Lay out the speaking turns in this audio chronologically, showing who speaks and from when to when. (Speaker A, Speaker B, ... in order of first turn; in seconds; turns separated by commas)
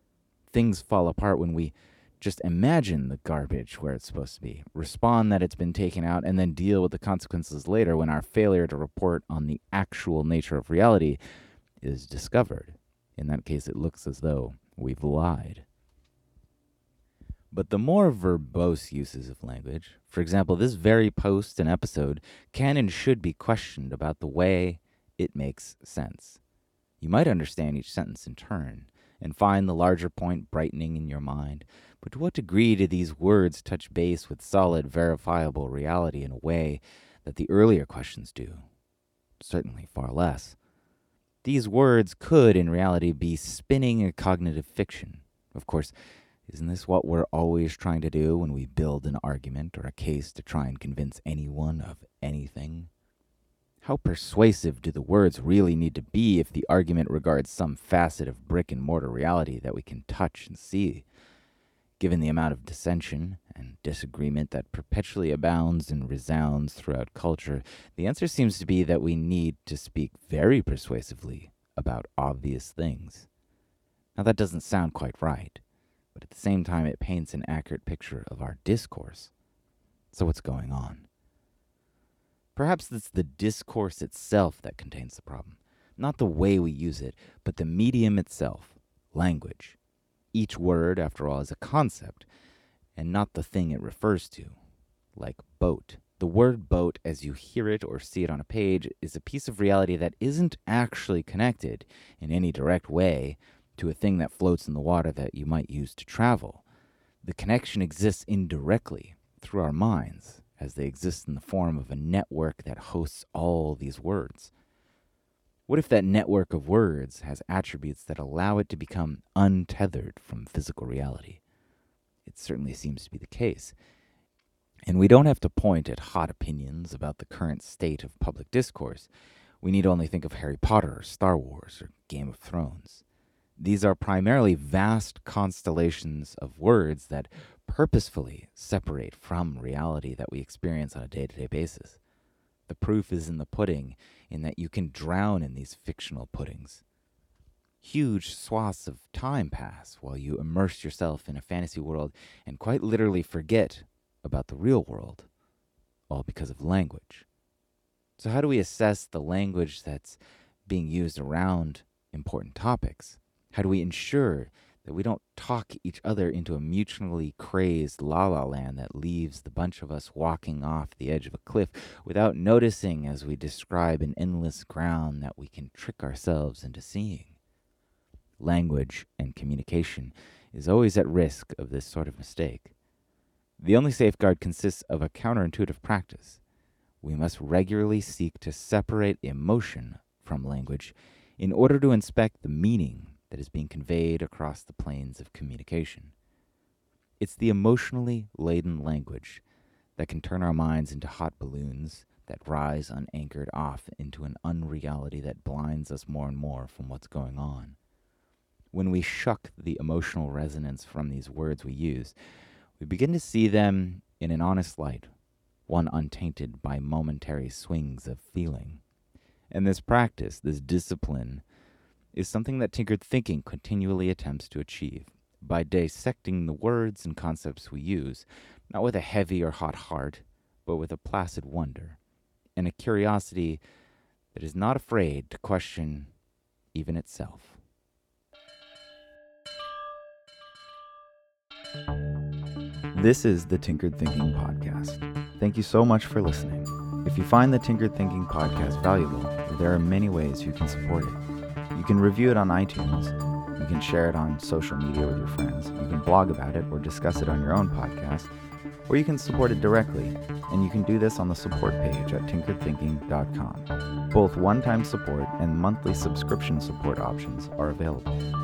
Speaker A: 0.5-11.2, Speaker A: 11.8-15.7, Speaker A: 17.5-26.4, Speaker A: 27.0-38.6, Speaker A: 39.4-40.6, Speaker A: 41.4-45.9, Speaker A: 46.5-52.9, Speaker A: 53.8-61.1, Speaker A: 62.0-73.3, Speaker A: 74.2-75.6, Speaker A: 76.1-79.3, Speaker A: 80.1-81.1, Speaker A: 82.6-89.8, Speaker A: 90.3-92.3, Speaker A: 93.0-94.6, Speaker A: 95.2-106.6, Speaker A: 107.2-114.5, Speaker A: 115.7-121.4, Speaker A: 122.2-123.8, Speaker A: 124.9-129.1, Speaker A: 129.6-133.0, Speaker A: 133.6-142.0, Speaker A: 142.7-146.8, Speaker A: 147.8-155.3, Speaker A: 156.1-157.3, Speaker A: 158.2-177.4, Speaker A: 178.4-182.7, Speaker A: 183.6-186.4, Speaker A: 187.0-196.1, Speaker A: 197.2-199.4, Speaker A: 200.0-207.8, Speaker A: 208.7-212.2, Speaker A: 212.8-215.1, Speaker A: 215.7-218.8, Speaker A: 219.5-221.4, Speaker A: 222.1-232.0, Speaker A: 232.6-233.6, Speaker A: 234.3-236.1, Speaker A: 236.7-237.6, Speaker A: 242.9-251.2, Speaker A: 251.7-258.3, Speaker A: 258.9-268.2